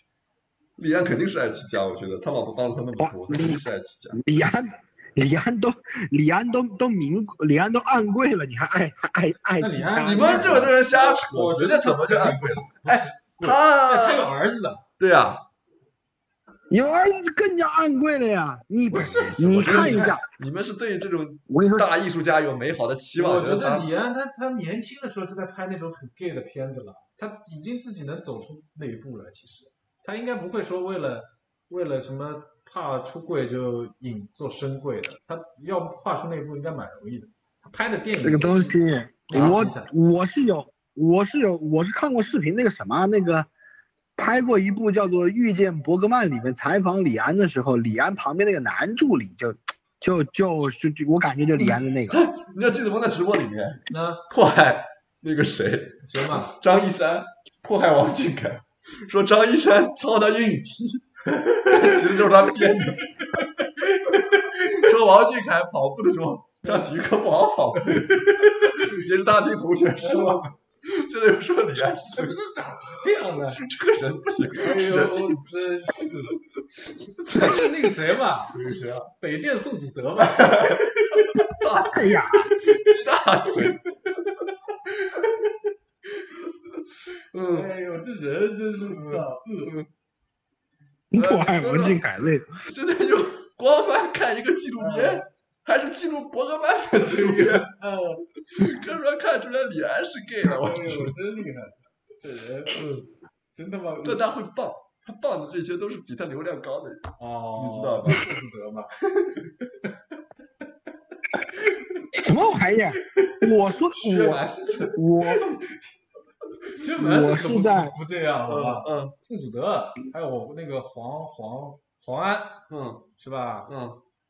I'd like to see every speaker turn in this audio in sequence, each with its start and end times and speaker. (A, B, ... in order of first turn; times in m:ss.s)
0:00.8-0:04.2 A
0:03.0-0:03.6 B
0:04.1-0:10.6 B
0:09.6-0:14.8 C
0:10.0-0:14.3 A
0:15.0-0:15.5 A
0:16.7-0:20.3 B
0:18.9-0:23.9 A
0:18.9-0:20.2 C
0:21.5-0:21.9 B
0:23.2-0:39.9 C
0:38.2-0:43.5 B
0:44.2-0:52.2 B
0:52.1-1:01.1 A
0:53.9-0:54.2 C
0:56.0-0:56.5 C
1:01.4-1:04.8 C
1:01.6-1:03.2 A
1:04.5-1:12.4 A
1:06.6-1:06.9 C
1:07.9-1:08.9 C
1:10.0-1:10.4 C
1:12.1-1:13.6 C
1:13.5-1:15.4 A
1:14.6-1:16.4 C
1:17.0-1:17.9 A
1:17.3-1:18.6 C
1:18.5-1:19.1 A
1:19.2-1:21.5 C
1:20.2-1:20.8 A
1:21.5-1:23.8 A
1:21.9-1:22.5 B
1:24.5-1:25.5 C
1:27.3-1:27.7 A
1:27.5-1:29.7 C
1:28.8-1:29.9 A
1:31.1-1:32.5 B
1:31.1-1:32.0 A
1:32.7-1:37.7 A
1:34.8-1:35.2 C
1:37.0-1:38.8 C
1:38.6-1:41.2 A
1:40.5-1:42.8 C
1:42.7-1:43.1 A
1:43.6-1:44.2 C
1:44.0-1:48.3 A
1:47.2-1:49.0 C
1:49.0-1:49.5 A
1:51.6-1:52.0 C
1:52.1-1:55.4 B
1:53.2-1:53.4 C
1:53.9-1:55.7 A
1:56.8-2:02.6 C
1:57.0-1:58.0 B
1:58.5-1:59.2 A
2:02.7-2:03.1 A
2:03.2-2:03.7 C
2:03.7-2:04.0 A